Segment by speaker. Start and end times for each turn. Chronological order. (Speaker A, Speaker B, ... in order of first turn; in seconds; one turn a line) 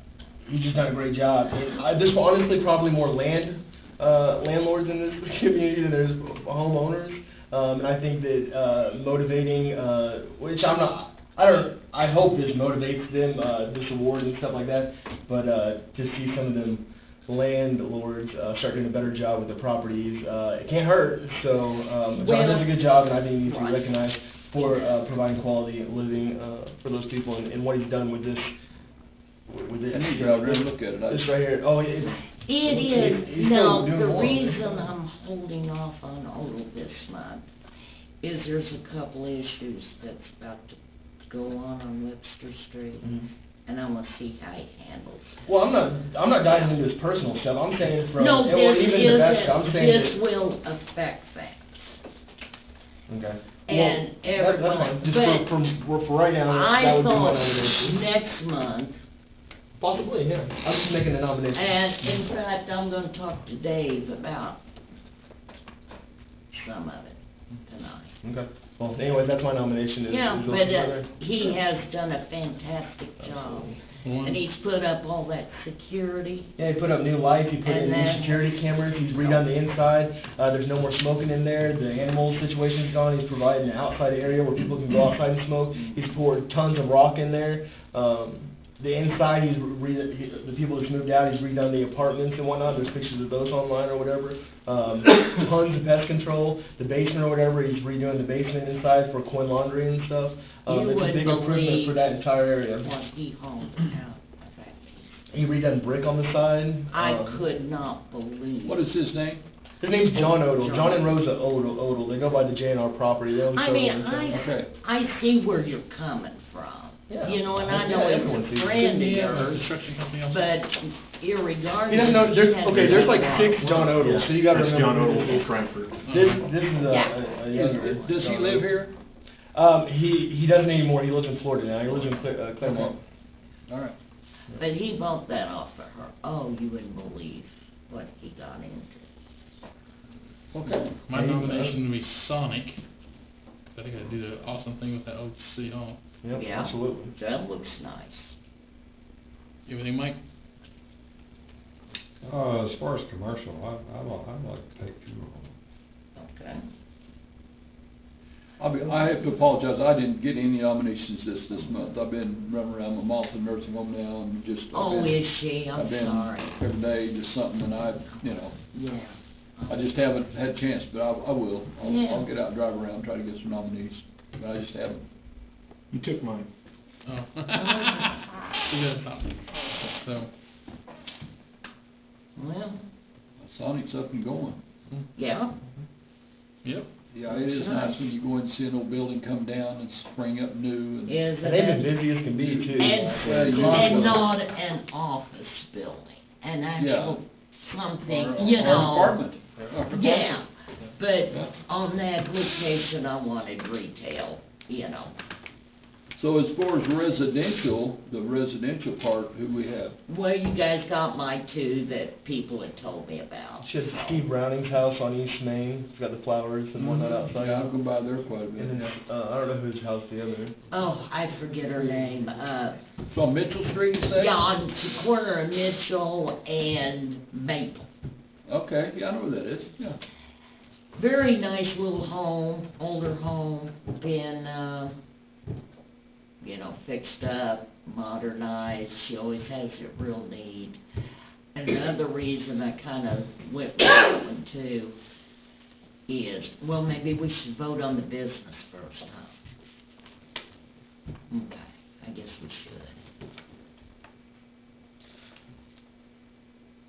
Speaker A: 0.5-28.5
Speaker B: 22.2-24.9
Speaker A: 29.5-34.9
Speaker C: 29.9-31.3
Speaker B: 32.4-37.4
Speaker B: 38.2-43.1
Speaker A: 43.0-43.3
Speaker B: 43.6-45.4
Speaker A: 45.4-50.1
Speaker B: 46.4-46.7
Speaker B: 48.1-52.0
Speaker A: 53.1-58.0
Speaker B: 53.6-55.5
Speaker B: 56.5-59.0
Speaker A: 59.8-61.7
Speaker B: 61.5-64.6
Speaker B: 66.5-68.1
Speaker A: 68.2-71.5
Speaker B: 70.0-76.5
Speaker A: 73.2-73.8
Speaker D: 74.0-74.4
Speaker A: 76.6-102.9
Speaker B: 77.6-78.4
Speaker B: 100.7-102.0
Speaker B: 102.8-105.2
Speaker A: 105.3-107.4
Speaker B: 106.9-108.9
Speaker C: 108.6-109.4
Speaker A: 109.8-114.5
Speaker B: 110.1-111.1
Speaker B: 113.5-119.7
Speaker C: 114.3-114.7
Speaker A: 117.1-118.8
Speaker D: 118.8-120.5
Speaker B: 120.3-124.0
Speaker A: 121.9-125.5
Speaker E: 122.7-123.3
Speaker E: 123.9-126.0
Speaker A: 126.0-128.7
Speaker D: 126.1-126.4
Speaker B: 126.8-128.2
Speaker C: 127.5-128.9
Speaker A: 129.5-133.0
Speaker C: 132.6-132.9
Speaker C: 133.7-133.9
Speaker B: 134.6-139.1
Speaker C: 140.5-140.9
Speaker D: 141.0-142.8
Speaker A: 141.1-141.8
Speaker D: 143.7-146.0
Speaker A: 146.2-147.1
Speaker B: 146.3-148.3
Speaker D: 149.7-150.2
Speaker F: 152.2-155.5
Speaker B: 156.2-156.6
Speaker C: 158.6-168.6
Speaker B: 164.7-166.6
Speaker B: 168.7-169.9
Speaker C: 169.7-175.0
Speaker B: 171.8-172.3
Speaker E: 175.9-176.5
Speaker D: 177.0-180.3
Speaker B: 182.3-182.8
Speaker C: 183.4-184.6
Speaker B: 185.2-185.5
Speaker C: 187.1-191.2
Speaker B: 187.3-188.0
Speaker B: 191.1-191.9
Speaker A: 191.4-194.2
Speaker C: 192.4-194.2
Speaker B: 192.7-199.2
Speaker C: 196.8-197.2
Speaker C: 198.1-200.4
Speaker B: 199.9-205.1
Speaker C: 206.2-209.9
Speaker B: 210.1-214.2
Speaker A: 213.6-217.7
Speaker C: 216.8-218.9
Speaker A: 218.6-220.6
Speaker B: 220.7-222.8
Speaker A: 221.8-222.0
Speaker C: 223.0-224.4
Speaker B: 224.1-227.9
Speaker C: 228.5-230.0
Speaker B: 231.0-235.0
Speaker B: 236.4-240.8
Speaker B: 241.5-244.9
Speaker B: 246.1-249.4
Speaker B: 251.3-253.0